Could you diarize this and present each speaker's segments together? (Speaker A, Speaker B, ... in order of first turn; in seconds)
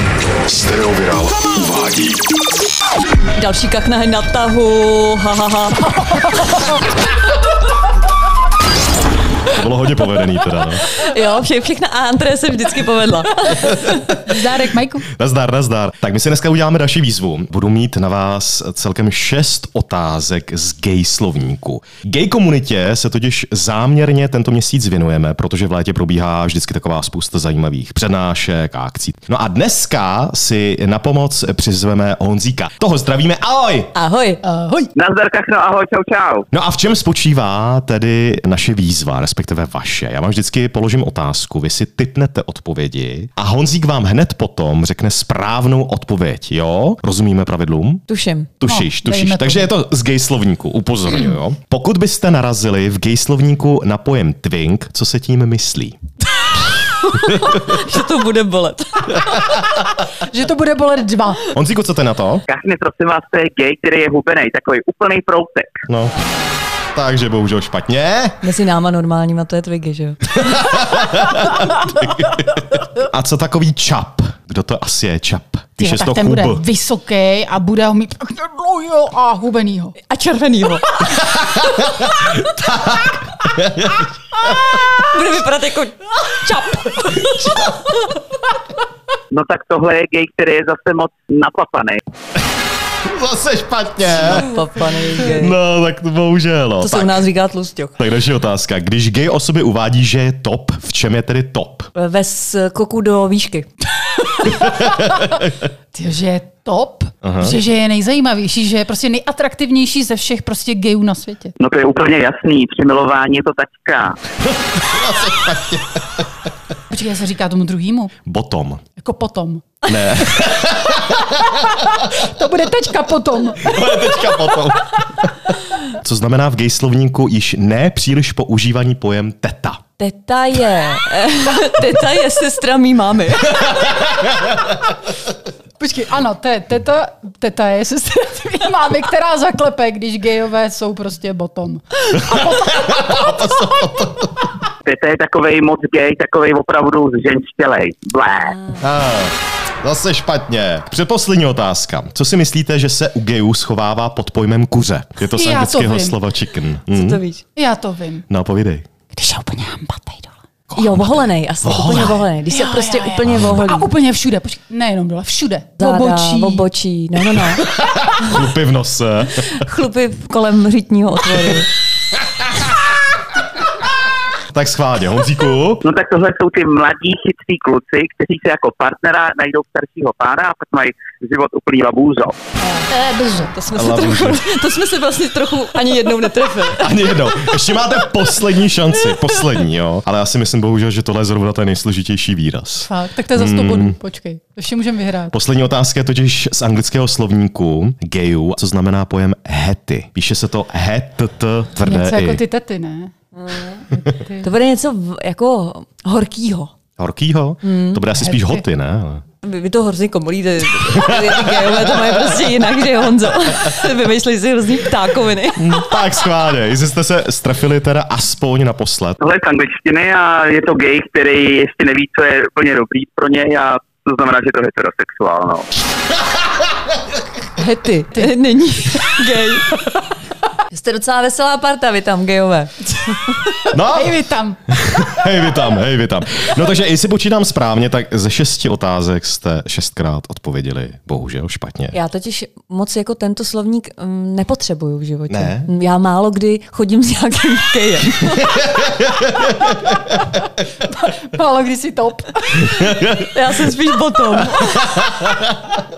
Speaker A: 0.5-2.2, 9.5-10.9, 15.1-33.9, 36.5-48.1, 48.6-56.0, 59.3-59.8, 61.5-62.4, 65.9-66.2, 66.9-68.4, 70.3-76.6, 81.1-84.7, 87.1-87.9, 93.0-94.5, 95.2-97.2, 98.0-101.9, 104.6-105.5, 107.2-107.5, 114.6-116.0, 118.2-118.8, 119.8-122.2, 123.6-129.8, 133.6-134.7, 142.2-144.5, 148.8-157.2, 158.3-158.8, 160.7-162.2, 167.6-169.6, 174.5-175.8, 183.7-184.4, 186.7-194.0, 195.3-202.4, 207.0-209.2, 211.0-212.0, 215.6-219.2, 233.6-234.2, 234.7-242.0, 245.3-245.7, 248.2-250.8, 252.6-253.3, 254.6-255.7
Speaker B: 3.3-6.7, 10.9-14.2, 33.9-34.4, 48.1-48.6, 56.8-59.5, 66.2-66.5, 68.4-70.7, 80.0-81.0, 84.7-88.2, 94.0-95.6, 96.8-97.9, 101.9-104.3, 130.0-133.8, 148.5-148.8, 156.9-157.4, 160.8-163.9, 165.8-167.7, 168.2-168.5, 169.3-171.7, 182.6-188.2, 189.0-189.6, 203.4-203.8, 204.4-206.7, 207.6-208.1, 209.4-216.0, 227.6-229.8, 230.7-233.4, 241.9-248.6, 253.2-255.0
Speaker C: 14.2-15.1, 34.5-34.9, 48.6-49.7, 60.1-61.5, 75.8-80.0, 104.4-105.2, 105.9-111.5, 116.9-118.1, 119.0-120.4, 121.8-123.8, 135.8-143.9, 155.2-156.2, 157.6-158.2, 159.1-160.3, 162.5-166.7, 182.9-183.5, 192.8-195.3, 201.8-203.1, 203.9-204.5, 208.2-208.6, 233.6-234.6, 250.8-252.9
Speaker D: 35.0-36.5, 62.5-65.8, 89.3-92.0, 111.6-114.2, 144.8-148.6, 175.8-182.4, 219.2-225.7